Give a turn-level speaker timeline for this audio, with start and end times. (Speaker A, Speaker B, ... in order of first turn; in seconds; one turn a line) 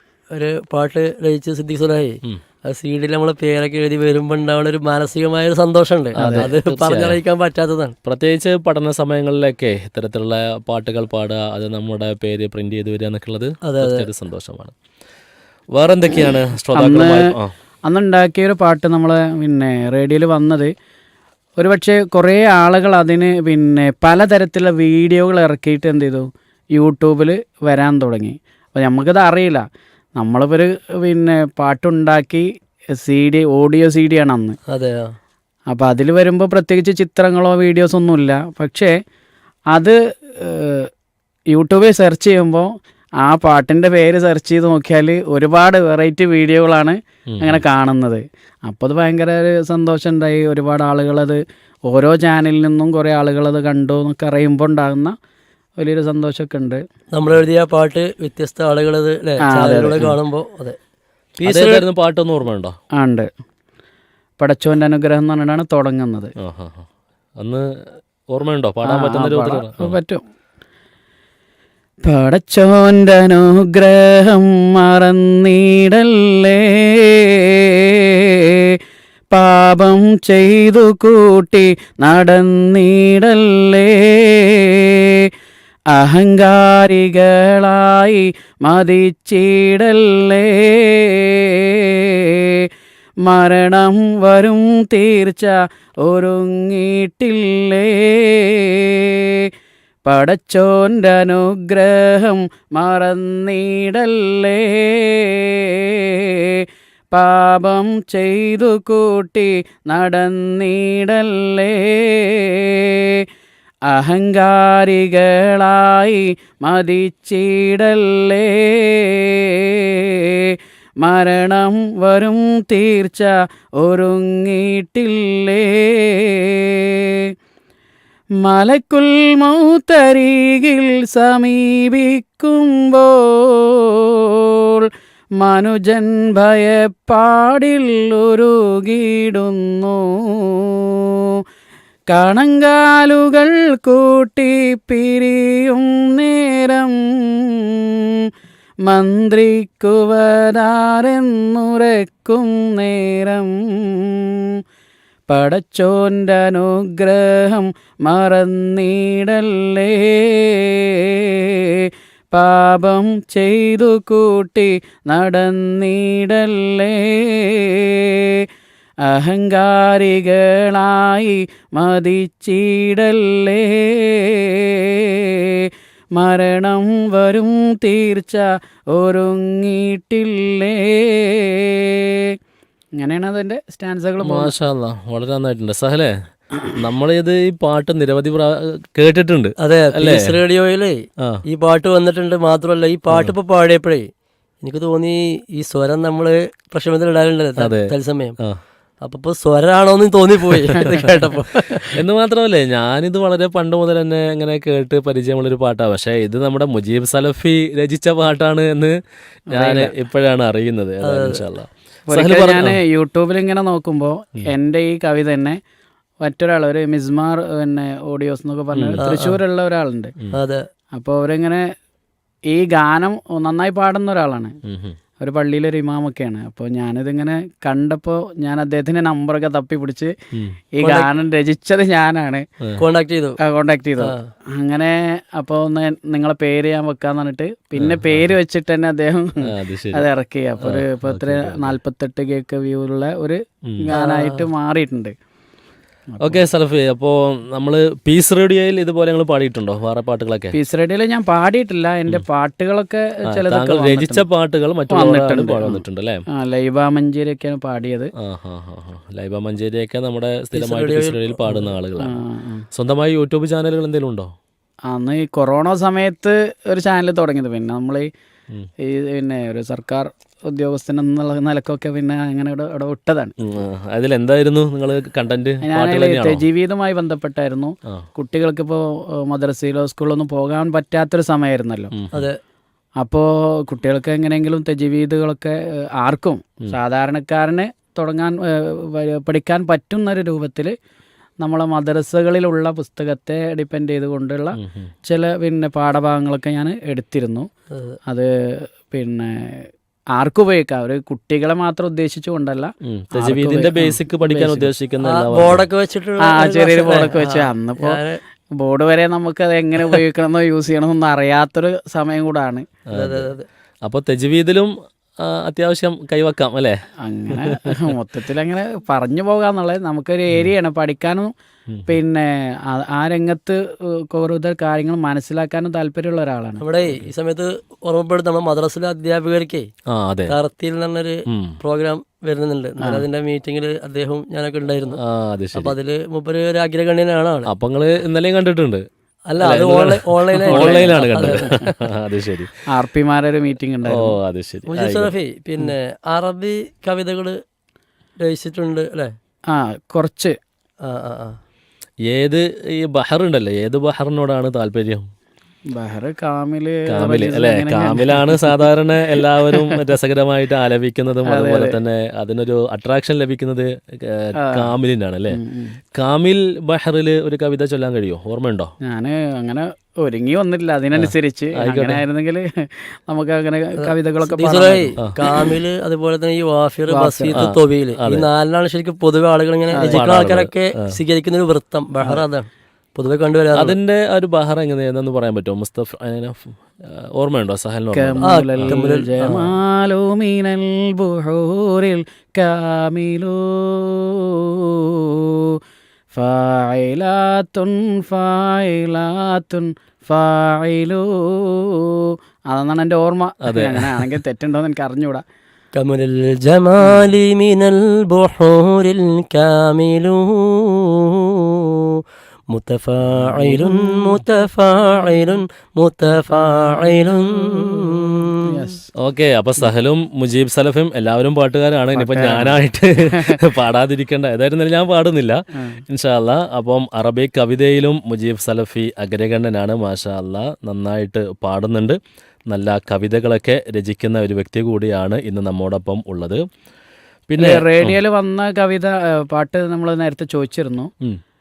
Speaker A: 0.3-7.9
Speaker B: 6.2-7.2
Speaker C: 6.2-6.4
Speaker B: 8.0-14.7
Speaker A: 13.6-14.1
Speaker B: 15.7-17.5
Speaker C: 16.2-17.3
Speaker C: 17.8-20.7
Speaker C: 21.6-29.6
Speaker C: 30.2-34.6
Speaker A: 34.7-35.1
Speaker C: 35.7-38.9
Speaker C: 39.7-40.9
Speaker C: 41.5-55.1
Speaker B: 47.3-47.6
Speaker C: 55.8-56.8
Speaker A: 57.1-60.8
Speaker C: 59.5-60.2
Speaker A: 61.4-61.8
Speaker B: 61.4-62.8
Speaker C: 63.0-63.3
Speaker C: 64.4-66.3
Speaker B: 66.4-66.9
Speaker B: 67.4-67.7
Speaker B: 68.3-70.0
Speaker C: 68.8-70.2
Speaker C: 72.0-78.8
Speaker C: 79.3-85.3
Speaker C: 85.9-92.7
Speaker C: 93.2-99.5
Speaker C: 100.0-113.2
Speaker C: 113.9-127.3
Speaker C: 128.4-141.4
Speaker C: 142.1-148.3
Speaker C: 148.8-154.6
Speaker C: 155.3-168.5
Speaker C: 169.0-182.4
Speaker C: 183.0-184.5
Speaker B: 184.2-186.2
Speaker B: 186.8-190.3
Speaker A: 189.6-194.1
Speaker A: 194.6-198.3
Speaker B: 197.6-198.6
Speaker A: 199.0-202.0
Speaker B: 201.9-208.9
Speaker B: 209.5-212.8
Speaker C: 209.5-209.9
Speaker A: 211.0-211.4
Speaker C: 212.1-215.6
Speaker C: 216.2-220.1
Speaker B: 218.7-219.1
Speaker A: 219.0-219.4
Speaker A: 220.3-220.7
Speaker C: 220.9-221.6
Speaker C: 222.5-224.6
Speaker B: 224.6-225.0
Speaker C: 225.2-230.1
Speaker C: 230.7-232.5
Speaker A: 230.8-231.1
Speaker A: 232.8-233.4
Speaker C: 233.4-245.1
Speaker A: 234.0-234.3
Speaker B: 237.8-238.3
Speaker B: 239.4-240.1
Speaker B: 240.6-241.8
Speaker B: 243.6-243.9
Speaker A: 243.9-244.5
Speaker C: 246.1-246.4
Speaker B: 246.2-250.6
Speaker C: 250.5-254.2
Speaker B: 253.3-256.2
Speaker C: 254.9-258.1
Speaker B: 258.2-262.2
Speaker A: 260.5-261.6
Speaker C: 262.0-262.6
Speaker B: 262.7-264.3
Speaker C: 264.9-268.1
Speaker C: 268.8-273.3
Speaker B: 273.4-276.4
Speaker C: 275.6-281.9
Speaker B: 281.9-282.3
Speaker A: 282.1-282.4
Speaker C: 283.0-290.7
Speaker C: 291.4-297.5
Speaker B: 294.6-294.9
Speaker C: 298.1-304.7
Speaker B: 302.8-305.6
Speaker A: 305.0-308.2
Speaker C: 306.2-308.0
Speaker C: 308.5-312.6
Speaker B: 312.9-313.3
Speaker A: 312.9-313.4
Speaker B: 313.8-316.8
Speaker C: 317.0-321.3
Speaker B: 317.4-317.9
Speaker C: 321.9-326.6
Speaker A: 326.6-329.7
Speaker B: 329.9-330.3
Speaker A: 330.3-335.0
Speaker B: 331.3-331.6
Speaker B: 335.0-335.7
Speaker A: 335.5-337.5
Speaker B: 337.4-338.8
Speaker A: 339.3-341.6
Speaker B: 339.4-342.5
Speaker C: 340.4-340.9
Speaker C: 342.7-344.1
Speaker B: 343.9-345.1
Speaker A: 344.7-347.4
Speaker A: 348.2-349.1
Speaker C: 349.5-350.4
Speaker A: 350.9-351.4
Speaker B: 352.1-355.0
Speaker C: 355.7-359.8
Speaker B: 356.9-365.4
Speaker C: 361.3-361.8
Speaker C: 364.4-364.7
Speaker C: 365.3-365.8
Speaker B: 365.9-368.7
Speaker C: 368.8-375.6
Speaker B: 371.0-372.0
Speaker A: 373.8-383.7
Speaker C: 376.9-377.4
Speaker B: 377.3-378.3
Speaker C: 379.7-380.0
Speaker B: 379.8-380.9
Speaker B: 383.5-388.7
Speaker C: 387.9-395.6
Speaker A: 388.2-389.6
Speaker C: 396.1-405.2
Speaker B: 403.4-404.1
Speaker A: 405.7-418.4
Speaker C: 418.4-418.9
Speaker B: 418.9-436.4
Speaker C: 421.9-423.4
Speaker C: 425.5-425.8
Speaker B: 437.3-438.0
Speaker C: 437.4-440.9